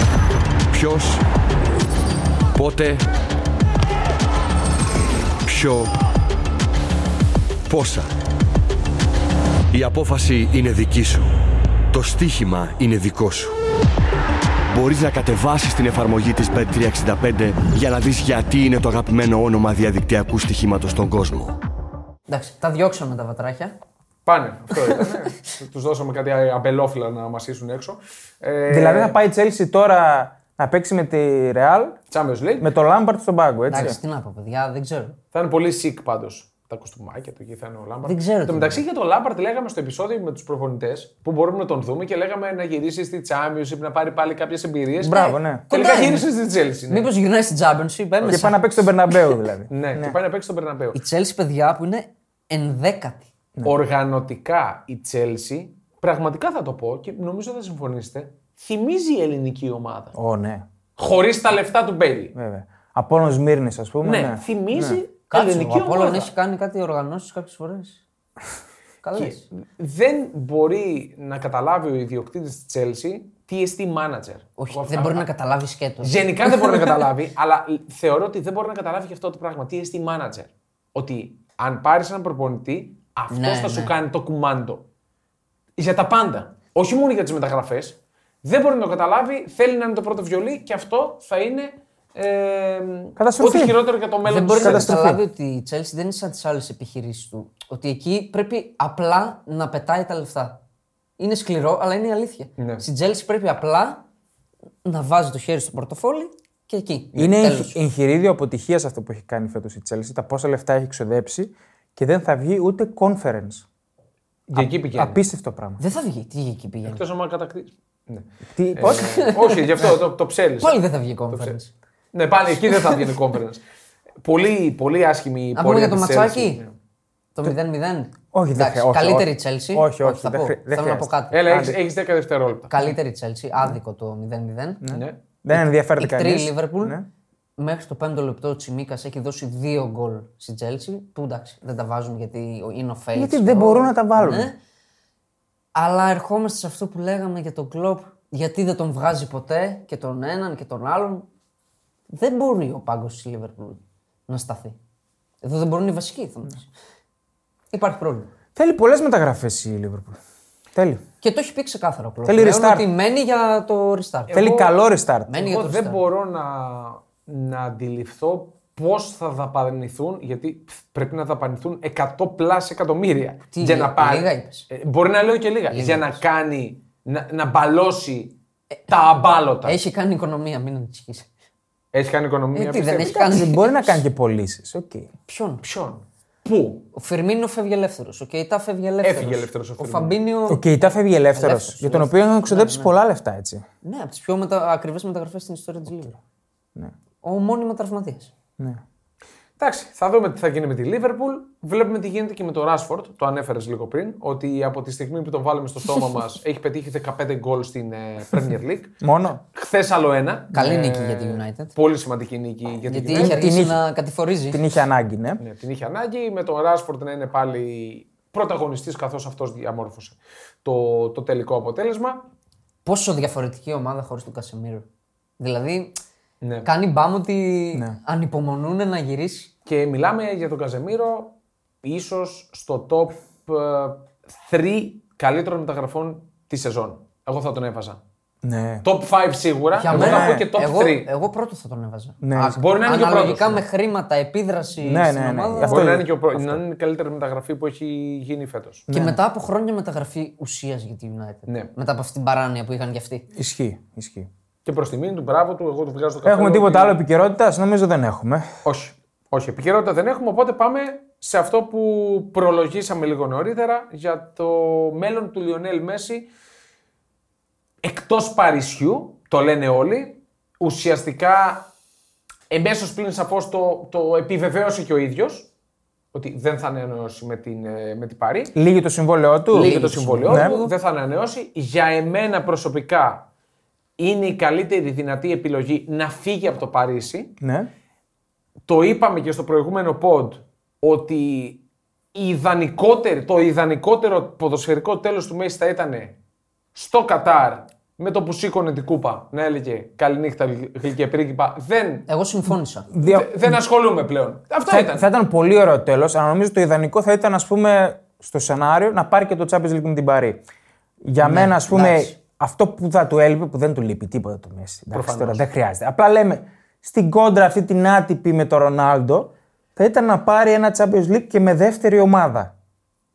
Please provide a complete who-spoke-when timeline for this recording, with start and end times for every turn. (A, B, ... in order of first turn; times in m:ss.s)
0:00.7-0:01.2 A
0:02.5-0:03.0 A
0:05.4-0:05.9 A
0:07.7-0:08.1 A
0:09.7-0:11.3 A
0:11.9-0:13.6 A
0:14.7-0:21.6 A
0:22.3-0:23.7 B
0:24.2-0:29.2 C
0:24.8-0:25.3 B
0:28.7-0:32.0 D
0:32.1-0:32.7 C
0:32.6-0:34.0 D
0:33.7-0:35.2 B
0:35.3-0:47.1 C
0:38.0-0:38.8 B
0:45.0-0:45.6 D
0:45.0-0:46.2 B
0:46.9-0:48.6 B
0:48.2-0:50.1 D
0:49.7-0:51.0 C
0:50.9-0:53.3 B
0:53.6-1:00.2 C
1:00.1-1:00.6 D
1:01.0-1:02.3 C
1:02.3-1:05.0 D
1:04.0-1:06.3 C
1:05.3-1:08.0 B
1:09.0-1:09.4 B
1:09.2-1:15.2 C
1:14.6-1:16.9 B
1:16.0-1:24.8 C
1:23.3-1:23.9 B
1:25.8-1:34.9 C
1:33.2-1:33.8 D
1:34.2-1:40.6 B
1:34.6-1:35.2 D
1:41.2-1:44.0 B
1:42.6-1:42.8 C
1:44.8-1:47.8 B
1:47.2-1:53.6 D
1:54.5-1:55.2 C
1:54.5-1:55.8 D
1:55.8-1:57.0 B
1:56.8-2:01.6 C
1:58.6-1:59.2 D
1:58.8-2:00.0 B
2:00.6-2:01.7 B
2:02.1-2:03.6 C
2:02.7-2:03.0 B
2:04.2-2:06.7 C
2:05.5-2:06.6 B
2:07.3-2:11.4 B
2:08.3-2:11.8 D
2:11.3-2:12.7 C
2:12.7-2:14.8 B
2:14.8-2:17.0 D
2:14.9-2:15.2 C
2:15.5-2:17.0 B
2:17.6-2:24.6 B
2:23.2-2:24.5 D
2:25.7-2:31.2 B
2:32.1-2:34.8 B
2:35.4-2:36.7 B
2:37.7-2:38.3 B
2:38.6-2:40.2 D
2:40.7-2:41.0 D
2:41.2-2:44.4 B
2:42.2-2:42.9 D
2:44.3-2:44.7 C
2:44.3-2:45.4 D
2:45.3-2:46.0 B
2:45.3-2:58.3 C
2:53.5-2:54.7 B
2:55.7-2:56.2 B
2:58.9-2:59.8 C
2:59.6-3:01.3 B
3:01.9-3:03.2 C
3:02.5-3:04.0 B
3:03.0-3:05.1 D
3:05.3-3:05.6 B
3:05.6-3:06.9 C
3:06.9-3:12.9 B
3:09.0-3:10.2 C
3:10.5-3:13.6 D
3:13.8-3:16.2 B
3:17.2-3:18.3 B
3:19.6-3:33.4 C
3:29.0-3:29.4 D
3:30.5-3:31.7 B
3:32.9-3:34.6 B
3:33.1-3:33.8 D
3:34.5-3:35.4 D
3:35.4-3:42.3 C
3:42.8-3:44.8 B
3:45.4-3:45.9 B
3:46.4-3:46.7 C
3:46.6-3:49.5 B
3:49.6-3:58.0 C
3:58.4-3:58.8 D
3:58.8-4:01.1 C
3:59.8-4:05.9 B
3:59.9-4:00.5 D
4:02.2-4:02.6 D
4:02.4-4:03.6 C
4:04.8-4:06.6 D
4:05.6-4:08.9 C
4:08.9-4:09.2 D
4:08.9-4:13.3 B
4:13.3-4:14.3 D
4:14.6-4:17.0 C
4:16.2-4:18.5 D
4:18.6-4:26.3 C
4:27.8-4:31.7 C
4:32.5-4:35.5 C
4:36.1-4:38.5 C
4:38.5-4:40.6 D
4:39.5-4:40.7 B
4:39.5-4:43.2 C
4:44.0-4:47.3 C
4:47.4-4:47.7 D
4:48.6-4:51.6 C
4:52.1-4:56.1 C
4:56.7-5:02.0 C
5:02.1-5:02.9 B
5:02.9-5:03.6 D
5:03.0-5:05.1 C
5:04.7-5:10.4 D
5:11.0-5:22.5 D
5:11.2-5:12.1 B
5:14.9-5:15.4 C